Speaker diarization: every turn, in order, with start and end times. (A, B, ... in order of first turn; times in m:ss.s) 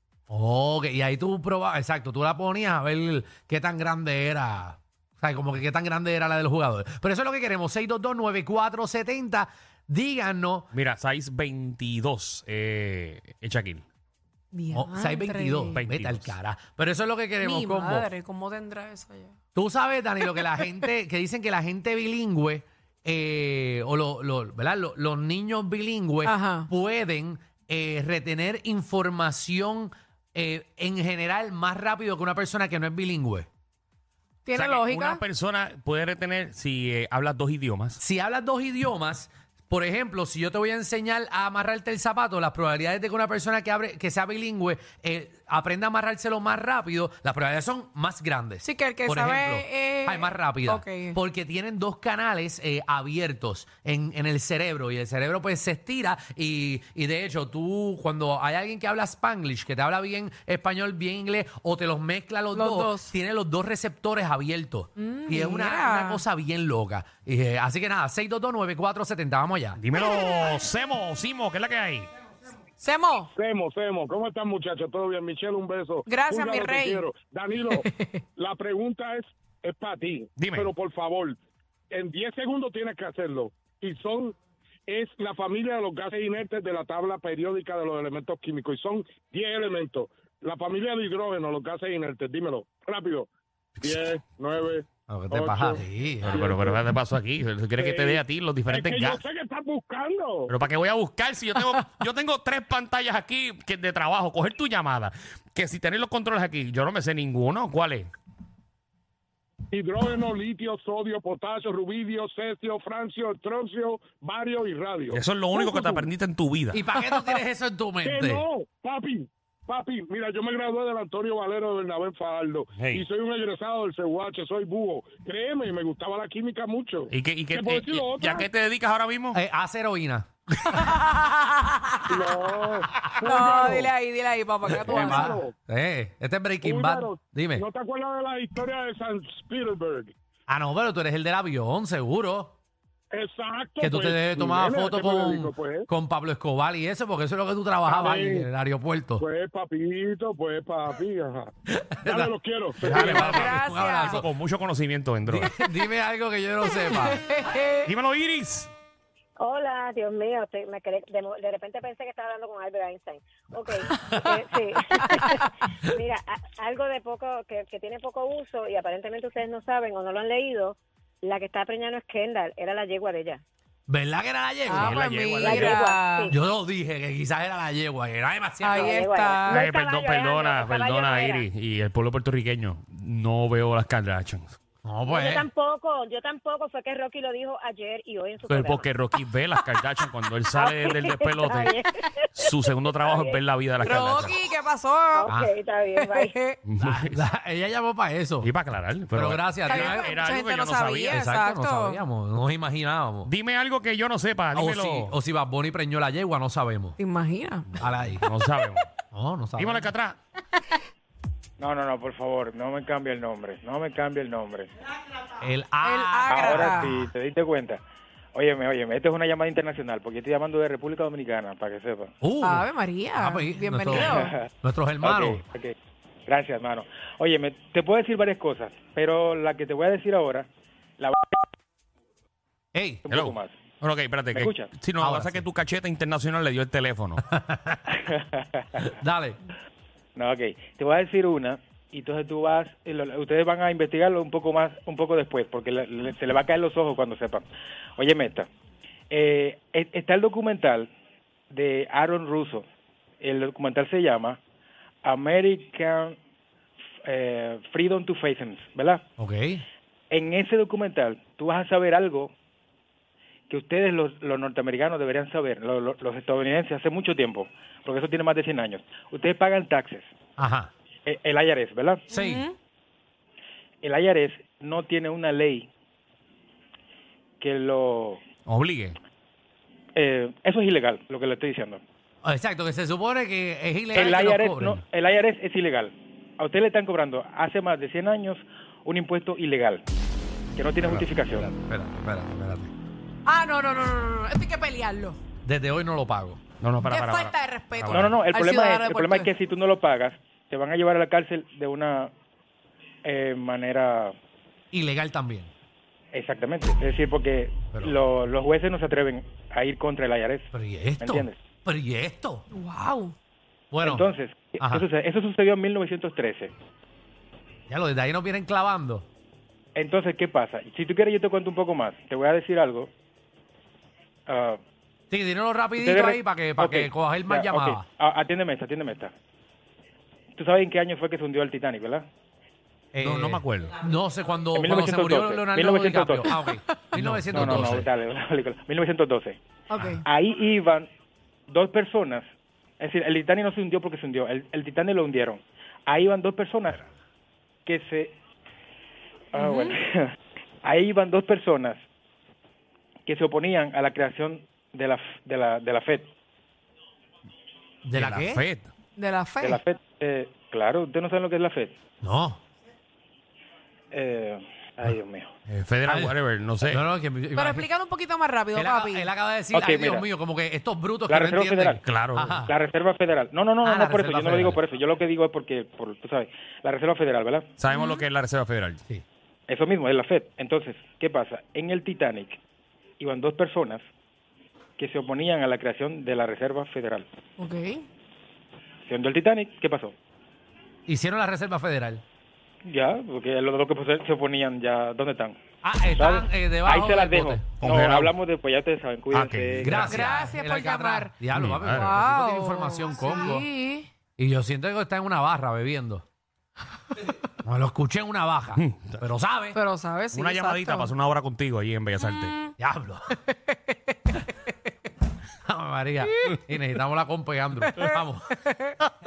0:00.3-0:10.7 A
0:10.7-0:13.8 B
0:14.5-0:15.8 C
0:14.7-0:18.1 A
0:15.7-0:16.4 B
0:17.4-0:19.3 C
0:19.5-0:33.5 A
0:26.2-0:26.7 C
0:34.5-0:35.2 C
0:34.5-0:38.0 B
0:38.0-1:09.8 A
0:48.6-0:51.2 C
1:02.5-1:03.1 C
1:05.0-1:06.2 C
1:09.8-1:12.1 B
1:10.0-1:10.5 C
1:12.8-1:13.3 C
1:13.4-1:21.4 D
1:16.1-1:17.1 C
1:17.7-1:18.1 C
1:20.4-1:20.7 B
1:21.9-1:24.4 D
1:24.9-1:33.3 D
1:33.8-1:36.8 D
1:35.1-1:36.5 A
1:36.2-1:39.2 B
1:37.8-1:40.5 D
1:40.5-1:48.1 B
1:49.7-1:56.1 D
1:55.1-1:56.8 B
1:56.7-1:58.4 A
1:58.0-2:08.5 D
2:02.8-2:03.0 B
2:07.1-2:09.4 B
2:09.3-2:10.3 A
2:10.7-2:12.4 C
2:12.1-2:13.9 D
2:13.2-2:15.4 C
2:14.6-2:15.5 D
2:14.9-2:17.6 A
2:16.6-2:20.1 D
2:20.5-2:22.6 A
2:23.1-2:25.9 D
2:23.8-2:29.2 A
2:27.9-2:28.5 D
2:29.2-2:31.5 D
2:31.7-2:34.3 A
2:32.0-2:33.7 D
2:32.8-2:35.5 B
2:33.0-2:34.2 C
2:35.3-2:37.2 A
2:36.8-2:37.9 C
2:37.8-2:38.7 B
2:39.4-2:53.4 E
2:53.9-2:55.0 A
2:54.7-2:56.3 C
2:54.8-2:55.7 B
2:55.4-2:56.4 E
2:56.3-2:59.0 A
2:58.6-2:59.6 C
2:58.7-3:01.5 E
2:59.5-3:04.6 B
3:04.8-3:05.5 A
3:05.1-3:08.9 E
3:08.5-3:11.8 B
3:10.5-3:13.4 E
3:12.4-3:14.4 B
3:13.8-3:15.3 C
3:15.1-3:16.4 E
3:15.3-3:15.5 A
3:15.9-3:16.6 C
3:16.6-3:17.2 B
3:16.8-3:18.5 A
3:18.4-3:21.1 B
3:19.1-3:20.1 A
3:19.7-3:22.0 C
3:21.1-3:23.3 A
3:23.3-3:25.2 B
3:24.5-3:27.0 A
3:27.0-3:27.8 C
3:27.7-3:28.9 B
3:27.8-3:28.3 A
3:29.1-3:29.9 A
3:29.6-3:30.2 B
3:31.6-3:34.7 F
3:35.4-3:36.6 A
3:35.8-3:37.0 C
3:36.3-3:37.8 F
3:38.4-3:42.1 F
3:42.2-3:45.4 A
3:42.4-3:44.4 C
3:43.9-3:44.5 F
3:45.0-3:45.8 F
3:46.3-3:50.5 F
3:51.0-3:51.4 F
3:52.7-3:53.0 A
3:53.0-3:53.6 F
3:53.1-3:57.2 B
3:54.3-3:54.7 F
3:55.0-3:55.5 A
3:57.3-3:57.8 A
3:57.9-3:58.9 F
3:58.8-3:59.4 A
4:00.2-4:07.5 F
4:08.0-4:08.5 F
4:09.1-4:10.9 F
4:11.5-4:12.6 F
4:13.2-4:14.4 F
4:15.0-4:16.2 F
4:17.0-4:19.0 F
4:19.2-4:19.6 A
4:20.1-4:22.3 F
4:23.5-4:30.1 F
4:30.4-4:30.7 A
4:31.1-4:32.0 F
4:32.1-4:32.5 A
4:32.2-4:32.5 C
4:33.8-4:35.7 F
4:37.4-4:38.2 F
4:38.5-4:39.0 B
4:40.0-4:41.8 F
4:42.2-4:44.8 A
4:43.9-4:49.8 F
4:50.6-4:51.5 F
4:50.8-4:52.7 A
4:53.3-4:55.2 C
4:55.4-4:56.4 A
4:56.6-4:58.1 B
4:56.8-4:59.3 C
4:57.9-5:02.1 F
5:03.0-5:04.1 F
5:04.7-5:05.5 A
5:06.1-5:10.5 F
5:10.5-5:12.5 A
5:11.0-5:11.4 F
5:12.5-5:13.1 C
5:13.7-5:14.9 A
5:13.8-5:16.5 F
5:17.7-5:19.1 A
5:19.8-5:22.9 F
5:24.3-5:24.6 F
5:25.1-5:27.9 A
5:25.8-5:29.1 F
5:30.4-5:32.0 F
5:32.9-5:37.9 A
5:33.0-5:33.8 B
5:34.5-5:36.5 F
5:37.0-5:37.6 B
5:37.3-5:39.4 F
5:39.7-5:40.0 C
5:40.0-5:40.9 F
5:41.5-5:42.3 F
5:42.8-5:46.8 F
5:47.7-5:48.1 F
5:49.3-5:51.8 F
5:49.4-5:49.8 C
5:53.1-5:56.1 F
5:57.9-5:58.4 A
5:57.9-5:58.7 B
5:59.0-5:59.6 C
5:59.4-6:01.7 F
6:02.0-6:02.4 A
6:03.9-6:05.3 F
6:05.5-6:06.8 B
6:05.9-6:07.7 A
6:07.4-6:09.1 C
6:08.5-6:12.6 A
6:09.5-6:10.1 F
6:11.1-6:11.8 F
6:11.8-6:12.4 B
6:12.4-6:17.5 F
6:13.6-6:14.6 A
6:17.6-6:18.8 B
6:17.7-6:18.0 C
6:19.5-6:22.4 F
6:23.0-6:23.8 F
6:24.8-6:27.1 F
6:27.4-6:27.8 C
6:28.9-6:29.9 F
6:30.9-6:32.0 A
6:32.6-6:35.4 F
6:35.6-6:37.4 A
6:35.9-6:40.0 F
6:37.6-6:38.1 B
6:39.3-6:39.8 B
6:39.6-6:43.5 A
6:39.8-6:41.1 C
6:41.3-6:42.0 B
6:41.7-6:43.9 C
6:44.2-6:46.0 A
6:47.4-6:49.6 A
6:48.6-6:49.0 B
6:49.5-6:51.0 C
6:50.1-6:52.4 B
6:52.0-6:52.5 C
6:52.6-6:53.2 A
6:53.3-6:54.2 C
6:55.4-6:58.4 A
6:57.7-6:57.9 C
6:58.5-6:58.7 C